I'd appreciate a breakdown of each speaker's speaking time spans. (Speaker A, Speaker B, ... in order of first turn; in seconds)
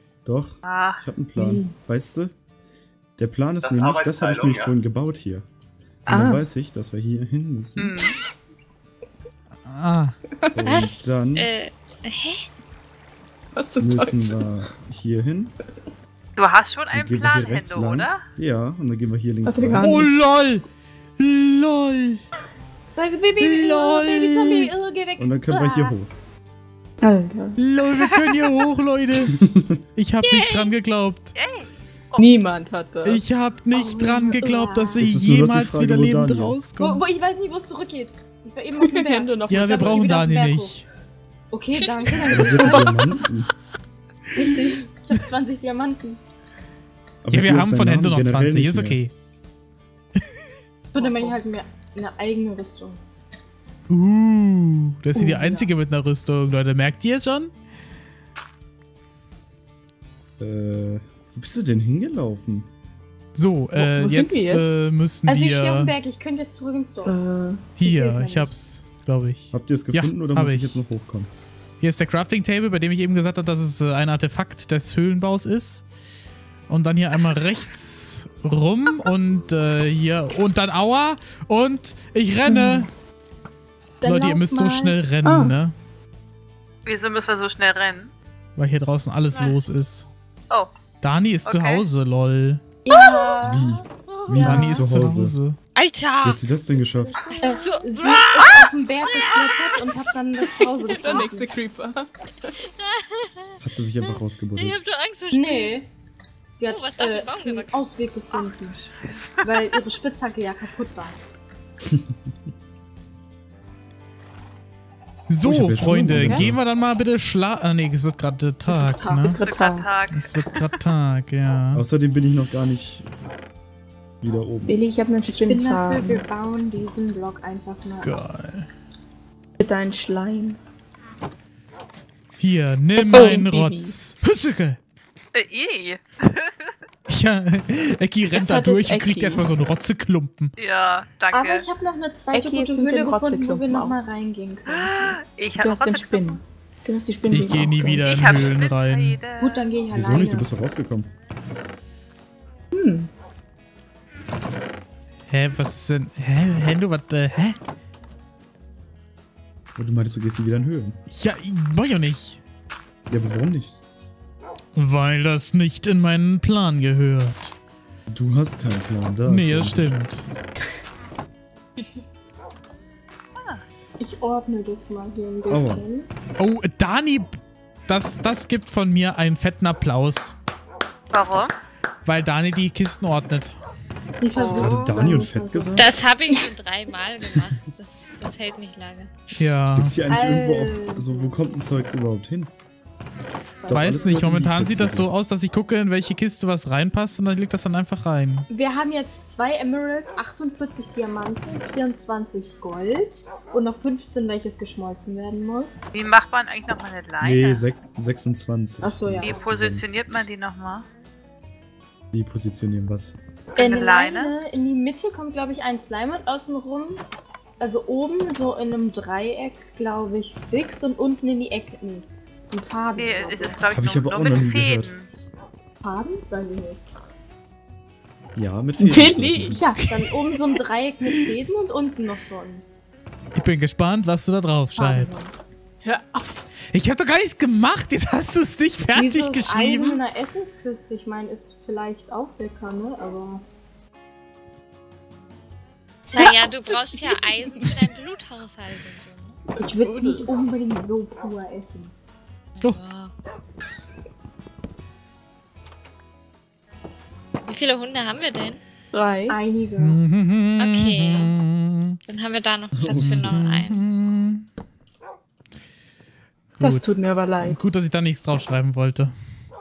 Speaker A: 0.2-2.3, 3.2-5.5, 6.1-8.0, 10.6-11.5, 13.8-15.6, 16.9-20.1, 25.2-26.1, 29.3-29.8, 35.0-36.6, 42.3-43.5, 47.2-49.0, 60.4-62.7, 69.5-71.3, 93.4-95.4, 96.2-97.2, 103.6-104.8, 111.9-112.2, 115.4-116.6, 121.7-123.1, 124.2-124.8, 149.9-151.1, 159.8-161.0, 163.1-163.8, 168.1-169.9, 175.5-175.9, 184.4-185.9, 189.7-192.5, 193.7-195.1, 207.2-209.9, 212.1-213.2, 223.7-224.9, 228.3-229.7, 262.7-263.4
Speaker B: 0.6-1.0, 3.7-4.7, 7.8-8.2, 16.4-18.2, 28.0-28.5, 30.2-30.6, 31.4-32.4, 86.8-88.1, 91.5-91.9, 109.1-109.5, 119.4-120.8, 135.3-136.7, 140.6-141.7, 144.7-146.4, 148.0-149.7, 173.4-173.6, 181.1-181.5, 205.9-207.7, 209.2-210.9, 213.6-214.4, 222.9-225.1
Speaker C: 1.4-1.7, 6.1-6.4, 13.6-14.4, 19.4-20.1, 27.0-27.6, 32.2-33.2, 38.8-40.1, 42.6-43.0, 63.7-64.8, 67.0-67.7, 82.5-82.9, 85.2-85.5, 100.8-102.6, 119.2-119.9, 124.7-126.2, 129.6-130.6, 133.0-134.0, 138.3-139.5, 142.3-144.0, 145.6-148.1, 152.7-153.1, 228.8-229.7, 235.8-236.4, 246.1-247.9, 249.6-250.3, 258.9-259.4, 266.6-267.6
Speaker D: 9.7-10.2, 19.8-20.6, 21.2-22.2, 23.4-24.7, 27.6-29.4, 29.9-31.3, 33.0-37.0, 39.5-40.9, 47.3-49.1, 53.9-57.5, 63.4-65.9, 67.8-70.8, 71.8-75.8, 76.7-82.9, 84.0-85.8, 88.6-90.1, 91.0-92.6, 94.4-95.6, 115.3-119.4, 120.1-121.8, 128.0-128.7, 132.4-134.8, 137.1-140.5, 147.3-149.2, 155.3-157.6, 161.1-162.4, 164.8-167.5, 169.2-170.2, 176.4-180.3, 182.1-183.6, 189.3-190.0, 193.7-198.5, 229.8-230.0, 233.3-235.4, 236.7-240.0, 259.8-262.0, 262.9-264.4, 266.6-266.9, 267.4-269.1
Speaker E: 10.7-12.4, 89.3-89.6, 92.9-93.3, 94.2-94.8, 95.8-96.4, 97.4-99.8, 102.6-105.8, 106.7-107.9, 184.4-184.8, 185.8-189.1, 246.1-249.4, 252.6-253.1, 257.5-258.6, 260.6-261.3, 262.1-263.8
Speaker F: 22.9-25.9, 33.7-35.0, 36.8-40.8, 41.5-43.1, 44.3-46.2, 50.9-53.0, 55.1-55.7, 65.3-67.2, 67.8-68.5, 84.0-85.0, 92.8-93.8, 97.4-101.6, 105.3-105.9, 106.5-108.9, 109.4-111.2, 118.7-119.3, 125.3-128.2, 141.3-145.2, 149.4-150.5, 174.0-176.1, 184.2-186.5, 190.1-191.5, 193.6-194.1, 198.5-205.8, 208.8-209.5, 213.6-217.0, 217.6-223.7, 225.8-226.8, 229.5-232.6, 234.8-235.3, 238.9-243.4, 249.6-251.9, 259.3-260.0